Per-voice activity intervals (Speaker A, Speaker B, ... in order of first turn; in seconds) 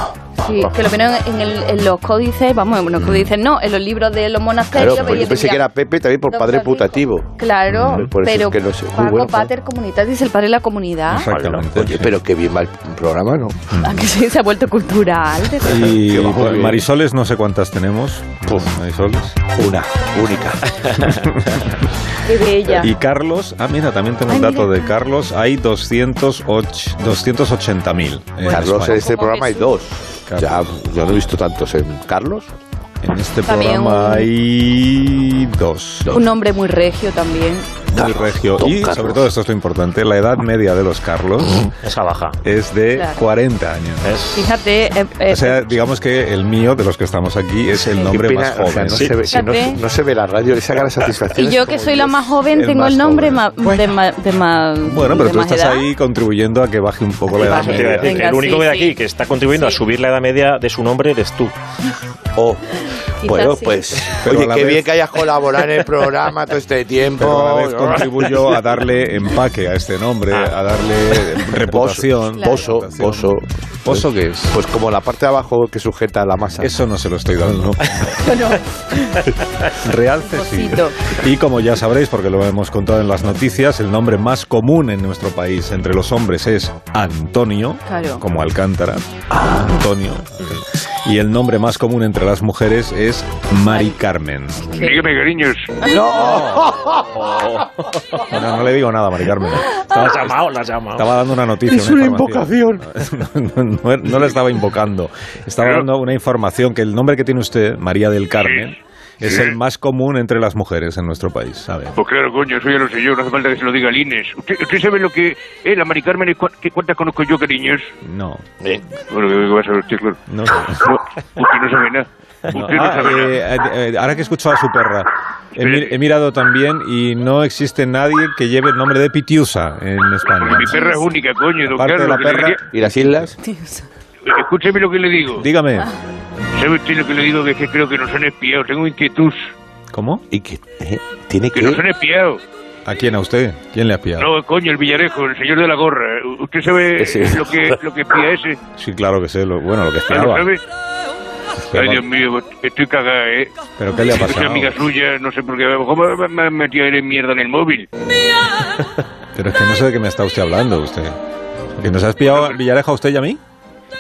Speaker A: 0.4-5.7, 6.3-11.3, 13.8-15.9, 22.2-22.9, 24.3-24.8, 28.5-29.8, 33.5-34.3, 36.1-37.8, 42.9-43.2, 44.3-45.7, 49.3-49.8, 51.3-55.9, 57.3-59.0, 59.5-59.8, 63.2-63.9, 72.3-72.8, 78.2-79.3, 80.2-81.0, 87.8-88.2, 93.7-94.0, 94.6-95.0, 130.7-131.0, 133.5-133.8
Speaker B: 3.0-3.3, 7.7-8.0, 11.1-12.1, 13.7-14.0, 15.6-19.4, 21.0-21.7, 22.8-29.1, 30.3-30.7, 33.0-36.1, 37.9-41.6, 42.4-44.1, 45.3-49.1, 52.9-53.9, 54.8-58.2, 64.2-64.9, 67.2-74.6, 76.6-78.0, 79.8-94.8, 96.2-96.7, 98.3-100.4, 100.9-112.0, 118.0-118.5, 120.3-120.9, 122.5-130.8, 131.7-133.3, 135.3-135.9, 139.9-140.2, 142.8-144.3, 148.8-150.5, 151.6-152.0, 153.8-154.8, 159.3-161.2, 161.8-163.4
Speaker C: 4.7-9.5, 11.8-13.7, 15.8-16.8, 19.6-20.6, 28.5-32.5, 37.9-39.2, 47.8-53.4, 62.4-62.6, 63.2-68.1, 71.6-76.8, 95.8-97.1, 101.7-102.8, 132.7-133.3, 140.3-141.8, 147.0-147.8
Speaker D: 11.3-11.6, 41.8-42.4, 44.0-44.4, 57.4-61.5, 97.2-98.2, 99.8-101.1
Speaker E: 94.8-95.7, 108.4-109.6, 112.0-117.9, 119.1-120.2, 120.8-123.4, 125.6-125.9, 130.4-132.6, 134.2-135.5, 136.6-139.5, 141.5-142.4, 144.2-148.6, 150.1-150.6, 151.7-153.5, 154.1-157.9